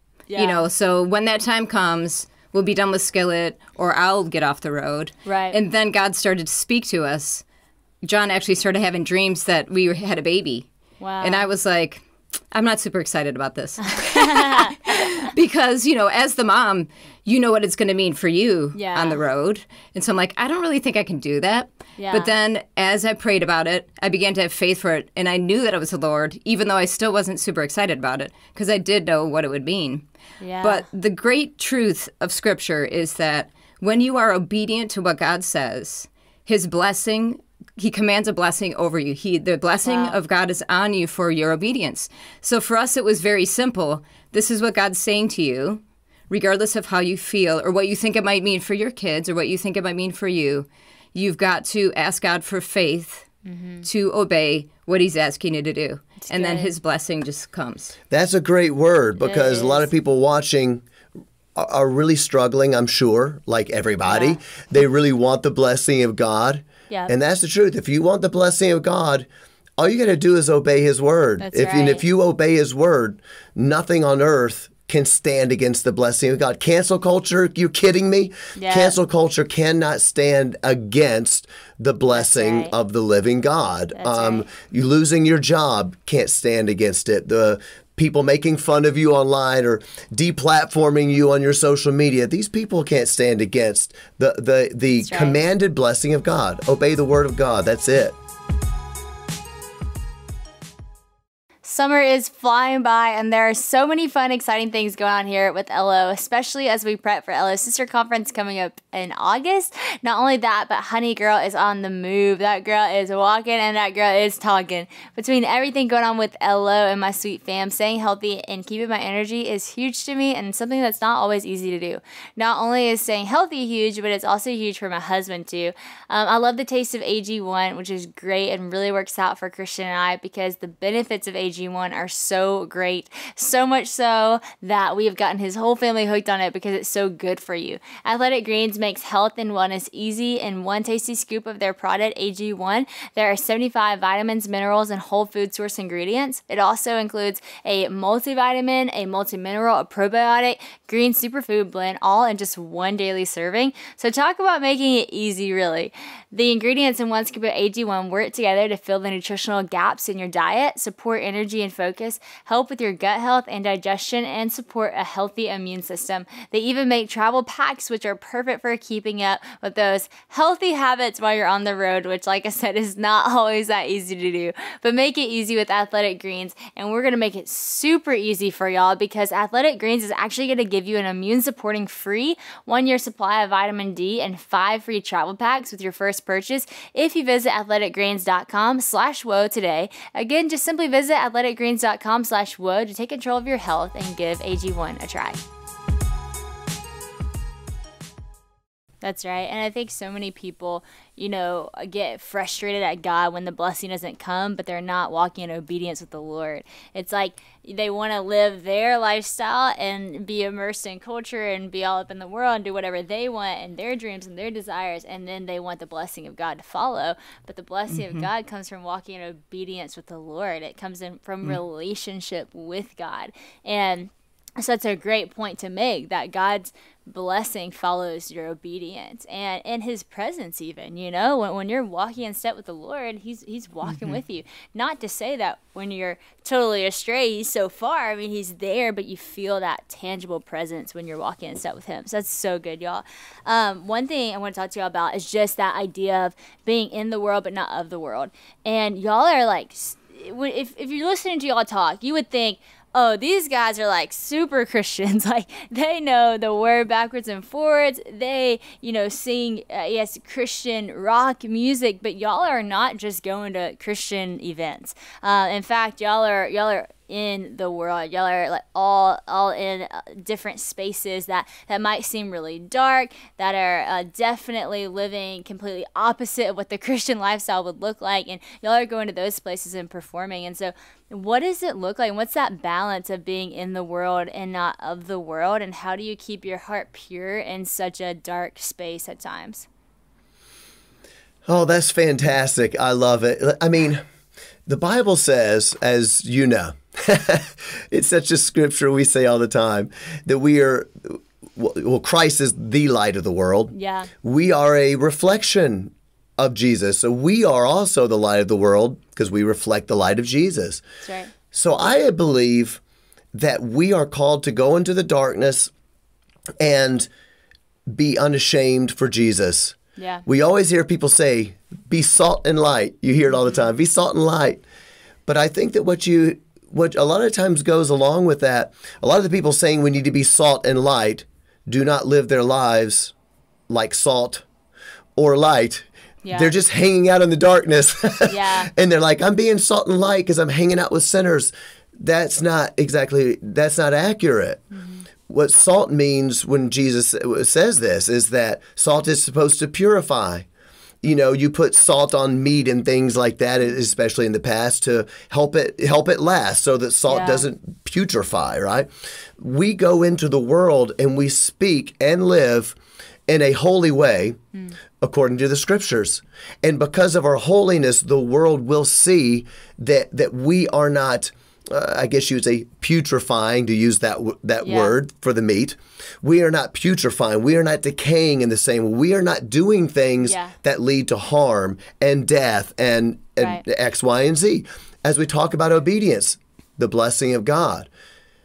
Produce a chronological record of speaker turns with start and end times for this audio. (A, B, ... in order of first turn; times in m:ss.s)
0:00.3-0:00.7 A
0:00.4-0:07.4 B
0:05.2-0:05.6 A
0:08.0-0:10.7 B
0:11.0-0:11.5 A
0:11.2-0:30.0 B
0:13.9-0:14.9 A
0:18.7-0:19.2 A
0:22.0-0:22.3 A
0:30.4-0:30.8 A
0:30.6-0:53.3 B
0:39.9-0:40.2 A
0:53.5-0:53.9 A
0:53.8-0:58.0 B
0:56.3-0:56.7 A
0:58.1-1:00.8 C
0:59.2-0:59.9 A
1:01.6-1:09.3 C
1:04.1-1:04.4 A
1:09.8-1:38.2 C
1:11.4-1:12.0 A
1:18.6-1:19.0 A
1:22.1-1:22.7 A
1:24.0-1:24.5 A
1:35.0-1:35.4 A
1:41.6-3:15.4 A
3:19.0-4:49.7 A
3:37.9-3:38.3 B
3:53.9-3:54.2 B
4:51.5-4:54.0 C
4:54.7-5:10.8 C
5:03.7-5:04.1 A
5:11.0-5:11.3 A
5:11.5-5:12.8 C
5:13.3-5:15.7 C
5:16.6-5:17.1 C
5:17.9-5:24.6 C
5:20.0-5:20.2 A
5:25.3-5:33.1 C
5:33.7-5:34.4 C
5:35.2-5:44.6 C
5:36.2-5:36.5 A
5:38.3-5:38.7 A
5:44.7-5:45.0 A
5:45.3-5:50.5 C
5:51.0-6:02.8 C
5:57.1-5:57.4 A
6:03.3-6:04.4 C
6:05.0-6:27.9 C
6:14.6-6:14.9 A
6:20.2-6:20.6 A